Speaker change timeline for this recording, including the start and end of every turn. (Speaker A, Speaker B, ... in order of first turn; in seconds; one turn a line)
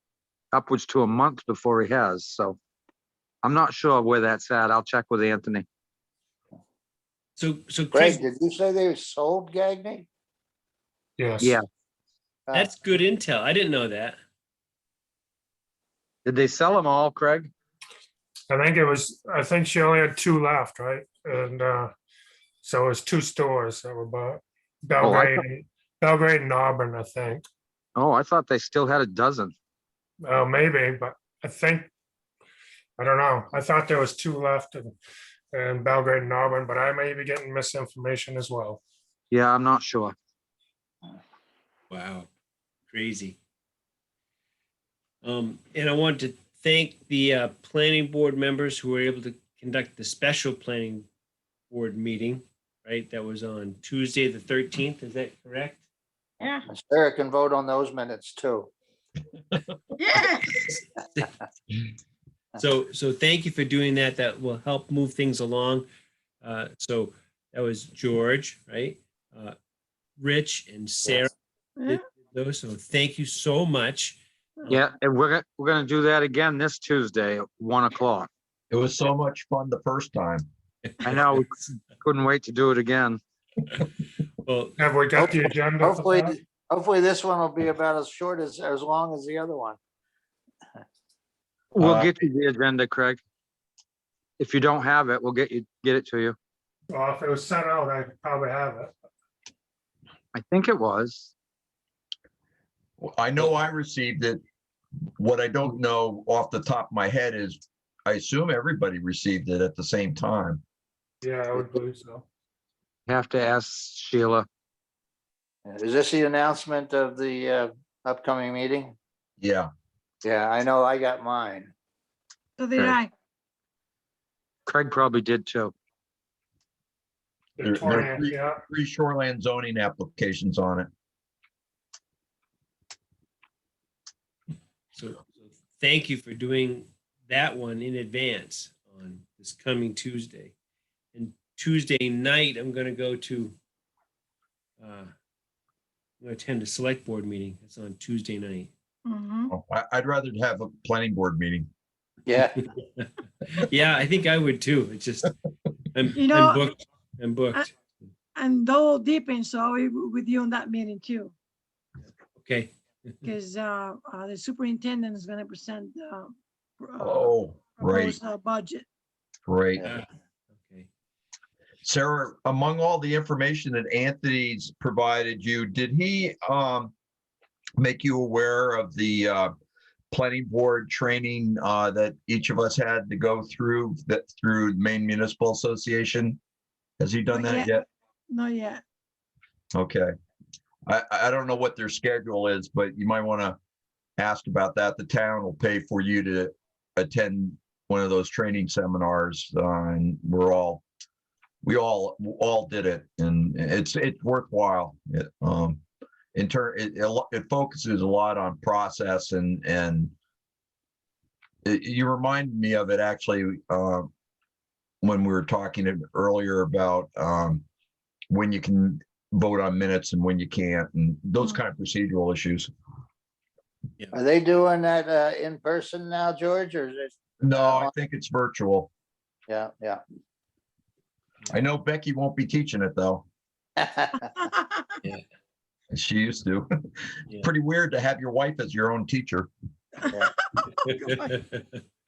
Speaker A: 0.5-2.6
Speaker A: 3.4-5.6
Speaker B: 7.4-8.2
Speaker C: 7.9-10.1
Speaker D: 11.2-11.6
Speaker B: 12.5-14.2
Speaker A: 16.2-17.5
Speaker D: 18.5-21.9
Speaker D: 22.6-27.4
Speaker A: 25.0-25.4
Speaker A: 27.9-29.5
Speaker D: 30.2-31.9
Speaker D: 33.0-34.9
Speaker D: 35.5-38.8
Speaker A: 39.3-40.1
Speaker B: 41.9-42.3
Speaker B: 42.9-43.4
Speaker B: 45.2-51.1
Speaker B: 51.7-55.8
Speaker C: 56.7-58.7
Speaker E: 60.0-60.6
Speaker B: 60.7-61.3
Speaker B: 62.6-65.9
Speaker B: 66.4-69.5
Speaker B: 70.2-71.3
Speaker B: 71.8-74.2
Speaker A: 74.7-78.3
Speaker F: 78.7-80.5
Speaker B: 80.8-81.4
Speaker A: 81.0-83.2
Speaker B: 84.4-84.8
Speaker D: 84.8-86.3
Speaker C: 85.8-89.8
Speaker A: 91.7-93.2
Speaker F: 91.8-92.1
Speaker A: 94.4-96.3
Speaker D: 96.9-98.9
Speaker A: 100.3-101.3
Speaker F: 103.0-104.4
Speaker F: 105.2-110.6
Speaker D: 111.2-112.2
Speaker A: 113.1-114.5
Speaker C: 115.7-118.9
Speaker F: 119.4-119.7
Speaker C: 120.2-121.7
Speaker E: 122.6-123.1
Speaker A: 124.7-125.7
Speaker D: 127.6-128.6
Speaker F: 127.6-130.9
Speaker B: 134.9-140.5
Speaker B: 141.1-143.6
Speaker B: 144.8-145.1
Speaker B: 146.2-148.7
Speaker E: 149.0-149.5
Speaker F: 149.5-151.7
Speaker C: 152.3-152.6
Speaker B: 153.0-155.3
Speaker B: 155.9-158.1
Speaker E: 156.2-156.6
Speaker E: 158.3-161.3
Speaker B: 162.4-163.3
Speaker E: 163.2-168.8
Speaker F: 167.0-168.2
Speaker F: 169.4-169.9
Speaker B: 169.8-170.9
Speaker F: 171.8-176.9
Speaker F: 177.8-179.5
Speaker F: 180.1-186.4
Speaker F: 187.0-187.8
Speaker E: 187.3-188.8
Speaker F: 189.7-190.1
Speaker F: 190.8-193.6
Speaker F: 194.2-200.8
Speaker F: 201.6-210.1
Speaker F: 211.6-214.1
Speaker F: 215.0-217.6
Speaker F: 218.3-222.7
Speaker C: 224.1-227.9
Speaker F: 227.4-228.9
Speaker C: 229.5-230.0
Speaker F: 231.5-233.2
Speaker C: 233.8-234.2
Speaker E: 234.4-234.9
Speaker F: 235.9-236.7
Speaker F: 237.3-239.5
Speaker E: 240.1-241.3
Speaker B: 240.7-241.8